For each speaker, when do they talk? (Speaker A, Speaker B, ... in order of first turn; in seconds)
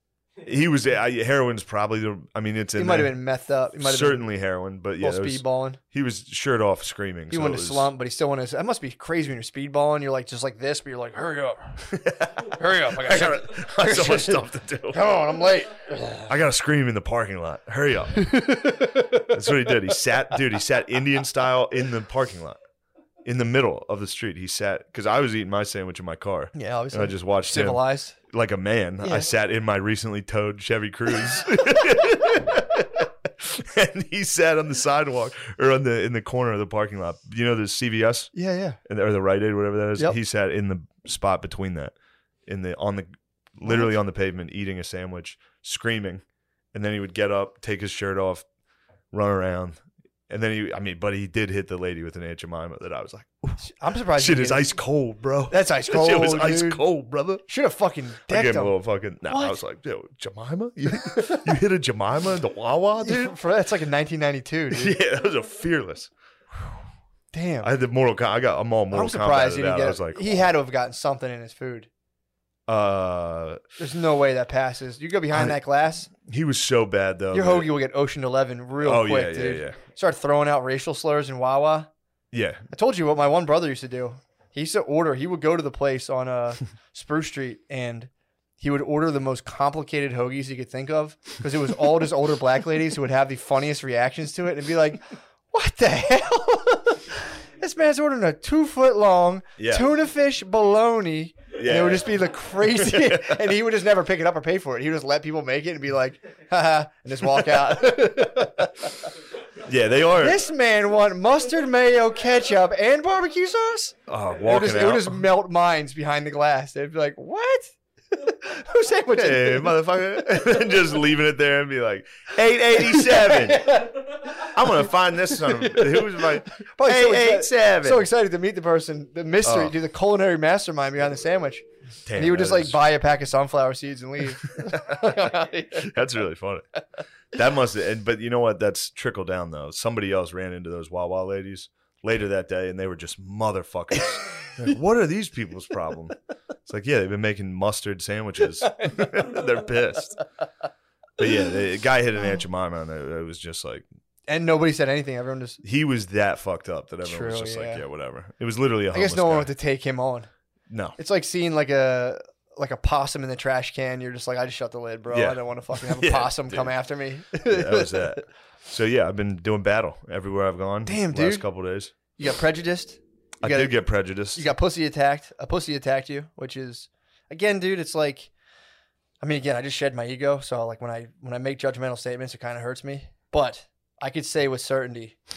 Speaker A: 0.4-3.2, 3.8-7.9, 11.9-15.0, 16.3-18.3, 19.2-22.6, 23.2-38.3, 38.8-41.9, 42.5-48.5, 49.1-53.6, 54.1-57.4, 58.3-63.4, 64.7-66.1, 67.6-70.5, 72.7-73.6, 75.3-75.6, 76.2-77.7, 78.8-79.8, 82.3-82.6, 99.6-99.9, 101.5-103.4, 109.6-110.4, 114.1-115.2, 119.1-128.1, 129.4-129.7, 132.1-132.8, 134.6-135.1, 135.7-136.6, 137.3-150.2, 151.2-153.8, 155.6-159.5, 160.7-161.0, 165.1-166.7, 167.4-171.9, 173.4-174.4
Speaker B: 2.8-4.3, 5.0-5.8, 7.3-16.3, 18.2-19.3, 26.5-28.1, 29.0-29.3, 38.3-38.8, 53.6-54.8, 55.5-56.8, 57.5-58.8, 59.3-59.6, 63.0-65.0, 67.3-67.7, 68.9-71.9, 73.8-76.1, 77.3-81.9, 82.7-109.1, 110.1-119.8, 122.8-124.5, 125.3-135.9, 148.8-149.2, 154.3-155.6, 157.0-157.8, 158.9-160.3, 161.0-168.2, 170.8-171.4, 172.1-173.8, 174.3-178.3, 179.2-185.2